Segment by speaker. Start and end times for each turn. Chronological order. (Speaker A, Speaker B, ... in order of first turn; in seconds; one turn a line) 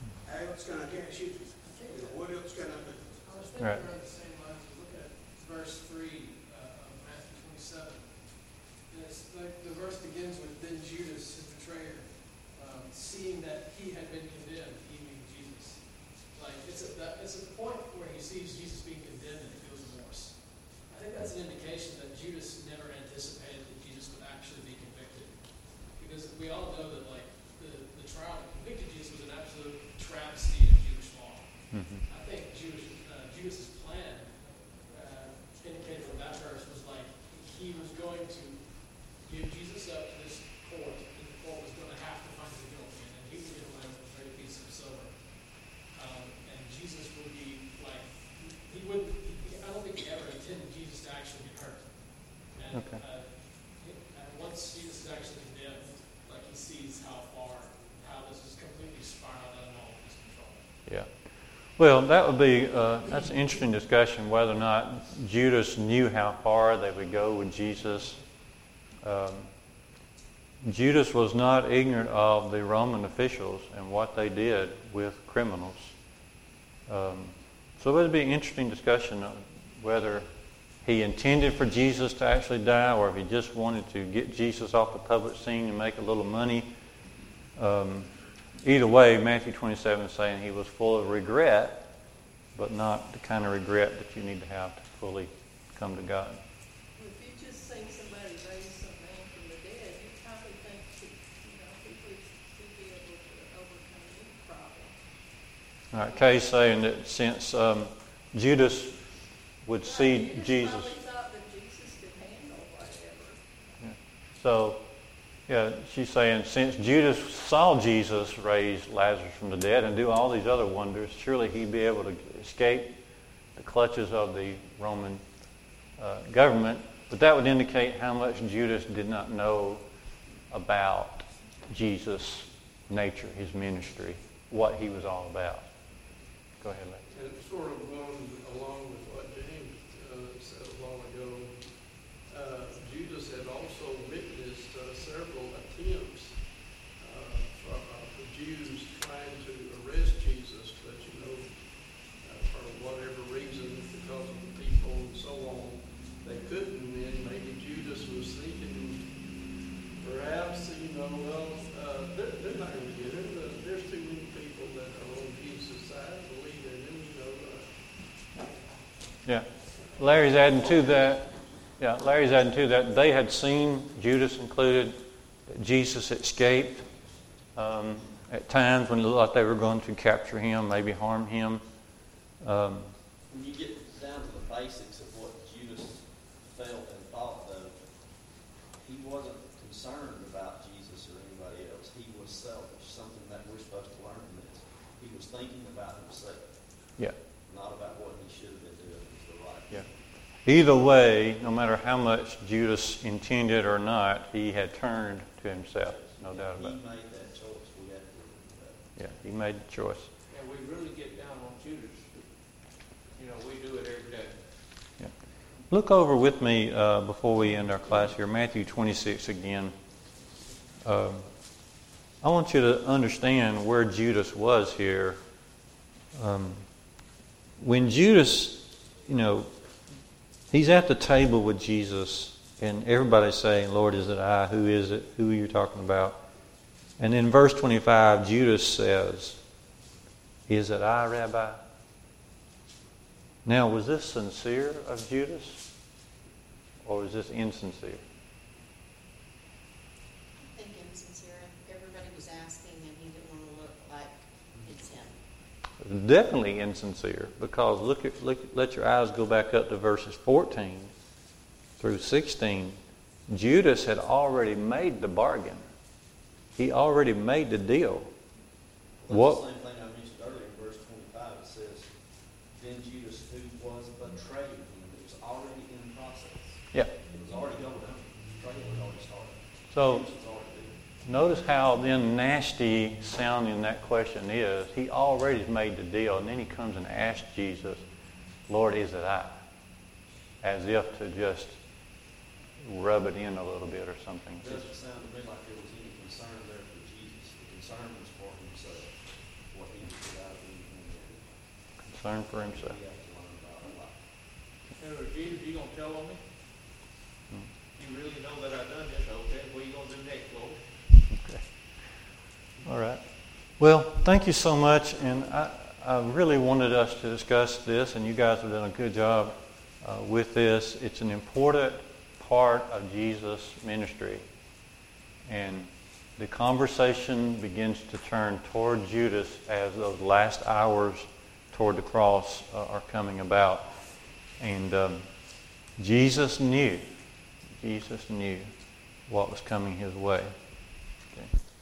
Speaker A: 0.2-3.3
Speaker B: 1.6-2.1
Speaker B: 3.2-60.8
Speaker C: 31.7-32.0
Speaker C: 52.7-53.0
Speaker C: 61.8-68.2
Speaker C: 69.0-69.5
Speaker C: 70.6-76.0
Speaker C: 76.9-80.3
Speaker C: 80.8-86.7
Speaker C: 87.5-88.1
Speaker C: 88.6-91.9
Speaker C: 92.5-96.4
Speaker D: 97.0-105.0
Speaker C: 105.9-109.0
Speaker C: 109.6-110.9
Speaker D: 109.8-113.4
Speaker C: 113.8-114.8
Speaker C: 115.5-123.0
Speaker C: 123.5-125.2
Speaker C: 126.0-129.8
Speaker C: 130.5-135.7
Speaker C: 136.6-137.0
Speaker E: 137.1-159.4
Speaker E: 160.0-167.8
Speaker C: 169.2-176.8
Speaker C: 177.5-181.6
Speaker C: 182.4-182.9
Speaker F: 183.3-187.8
Speaker F: 188.8-199.9
Speaker C: 200.4-206.8
Speaker F: 205.8-208.8
Speaker C: 208.9-210.1
Speaker G: 210.3-212.2
Speaker G: 213.1-214.4
Speaker C: 215.7-219.7
Speaker C: 220.8-221.2
Speaker C: 222.2-225.2
Speaker C: 226.1-226.6
Speaker C: 227.6-229.5
Speaker C: 230.5-236.2
Speaker C: 237.0-239.4
Speaker C: 240.5-241.6
Speaker C: 243.4-245.7
Speaker C: 246.8-248.0
Speaker H: 250.4-255.2
Speaker C: 255.8-260.9
Speaker C: 261.8-265.6
Speaker C: 266.6-268.1
Speaker F: 269.0-280.8
Speaker C: 269.1-269.4
Speaker C: 279.7-280.1
Speaker C: 281.0-287.8
Speaker C: 288.5-289.4
Speaker C: 290.4-291.6
Speaker C: 292.6-294.7
Speaker F: 294.4-301.4
Speaker C: 301.8-302.8
Speaker F: 302.3-304.0
Speaker G: 304.8-306.2
Speaker G: 307.7-310.6
Speaker C: 311.1-311.5
Speaker C: 312.6-313.0
Speaker C: 313.6-324.2
Speaker C: 325.3-333.7
Speaker C: 334.4-335.1
Speaker C: 335.8-336.9
Speaker C: 337.6-338.5
Speaker C: 339.1-340.3